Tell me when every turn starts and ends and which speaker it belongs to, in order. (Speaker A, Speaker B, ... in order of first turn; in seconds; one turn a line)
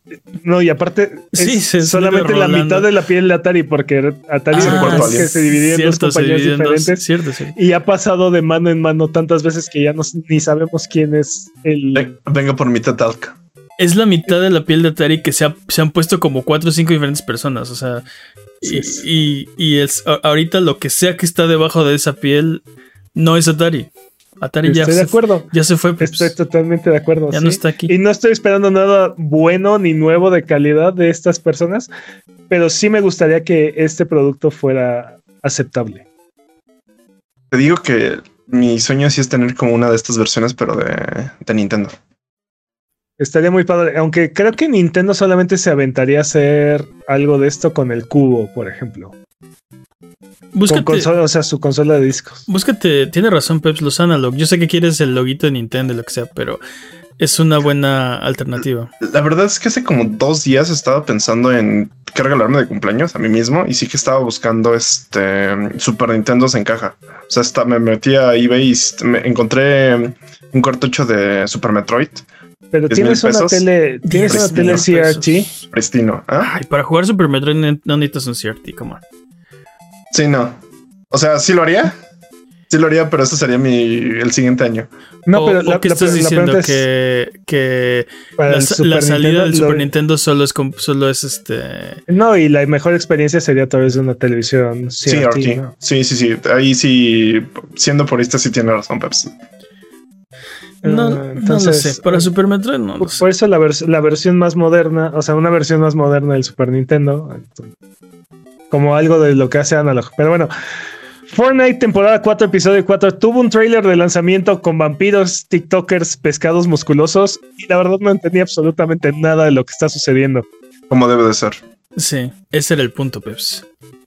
Speaker A: 0.4-12.1
Speaker B: 1.3-2.9
Speaker B: 4.5-7.5
Speaker C: 4.6-5.3
Speaker C: 11.9-13.4
Speaker B: 13.8-18.0
Speaker B: 18.6-22.6
Speaker A: 18.6-19.0
Speaker B: 23.1-26.3
Speaker A: 24.6-31.9
Speaker B: 27.3-27.9
Speaker A: 32.5-36.0
Speaker C: 37.5-42.0
Speaker A: 43.2-49.1
Speaker B: 50.5-51.1
Speaker A: 50.7-52.5
Speaker B: 52.5-56.6
Speaker B: 57.2-58.9
Speaker C: 59.0-72.2
Speaker A: 72.7-75.5
Speaker C: 72.9-73.7
Speaker B: 74.1-75.4
Speaker C: 74.3-74.8
Speaker C: 75.7-76.5
Speaker B: 76.4-79.0
Speaker C: 80.1-82.0
Speaker C: 82.7-84.9
Speaker A: 85.3-86.8
Speaker B: 85.3-92.0
Speaker A: 88.4-89.9
Speaker A: 92.1-95.7
Speaker C: 95.1-99.3
Speaker A: 100.8-102.3
Speaker B: 100.8-103.2
Speaker A: 103.0-107.7
Speaker A: 108.7-110.5
Speaker A: 111.3-120.5
Speaker C: 120.9-121.6
Speaker B: 122.0-123.6